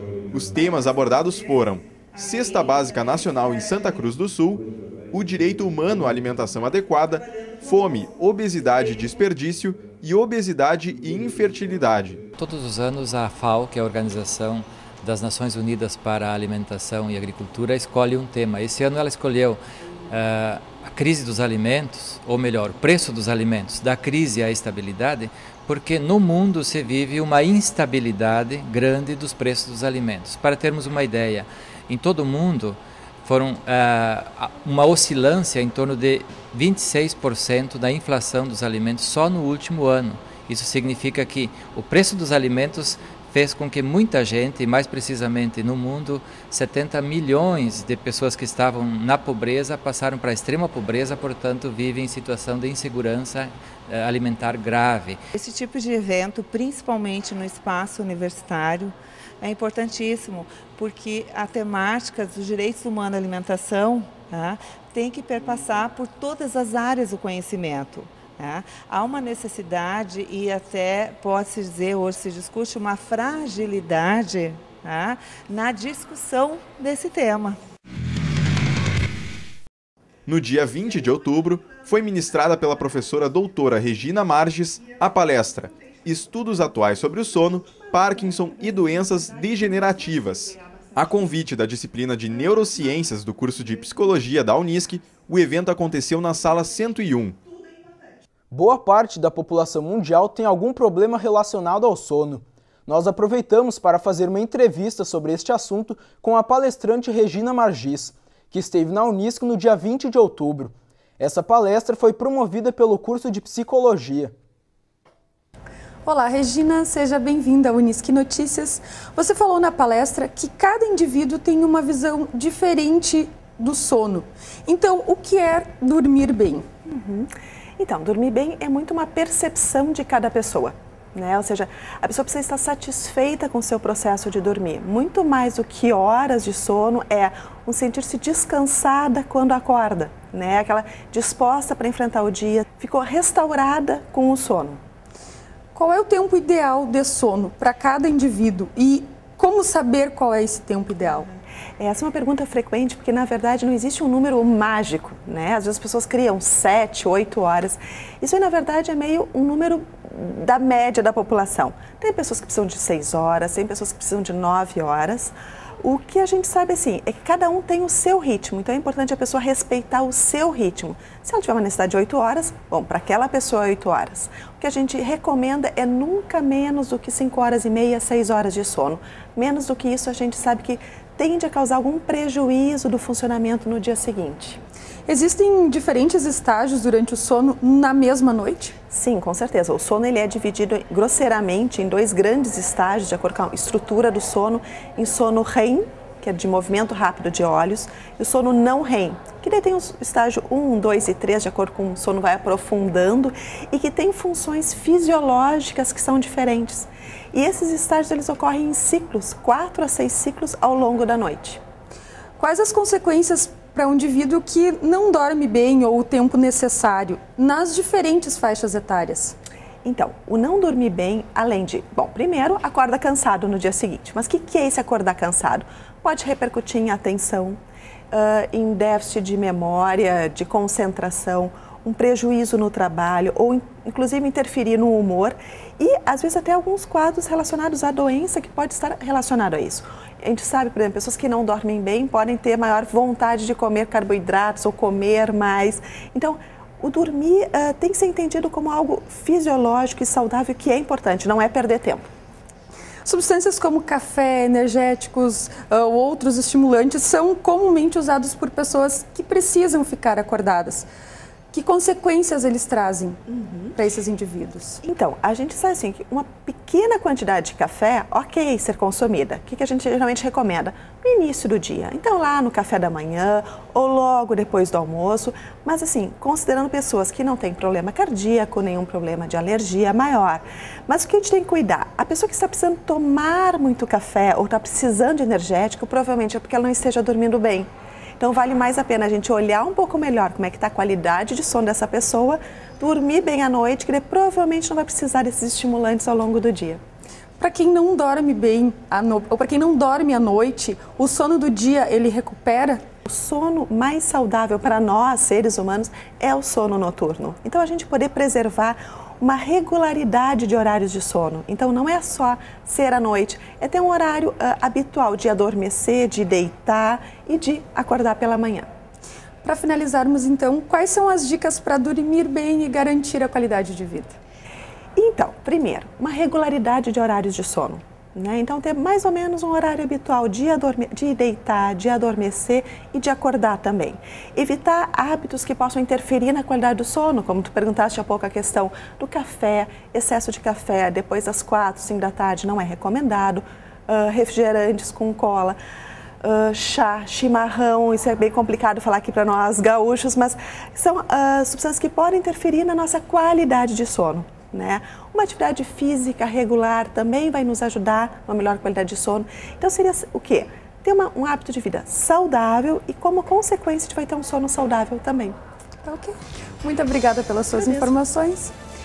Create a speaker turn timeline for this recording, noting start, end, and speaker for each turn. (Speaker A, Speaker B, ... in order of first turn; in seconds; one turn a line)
Speaker A: 0.3-12.2
Speaker B: 12.4-55.2
Speaker C: 55.3-77.6
Speaker A: 80.3-97.4
Speaker D: 98.5-114.3
Speaker E: 116.0-126.7
Speaker F: 126.9-144.8
Speaker E: 145.7-151.3
Speaker F: 151.8-184.6
Speaker E: 185.1-188.8
Speaker F: 188.9-211.6
Speaker E: 212.4-219.3
Speaker F: 219.8-227.6
Speaker F: 228.1-252.1
Speaker E: 253.1-260.9
Speaker E: 261.5-263.2
Speaker F: 263.3-263.7
Speaker E: 263.8-264.8
Speaker F: 264.8-287.7
Speaker F: 288.2-296.8
Speaker E: 297.4-302.8
Speaker F: 303.1-318.7
Speaker E: 319.4-324.2
Speaker F: 325.0-345.6
Speaker F: 346.2-365.4
Speaker E: 365.9-368.5
Speaker F: 367.6-367.9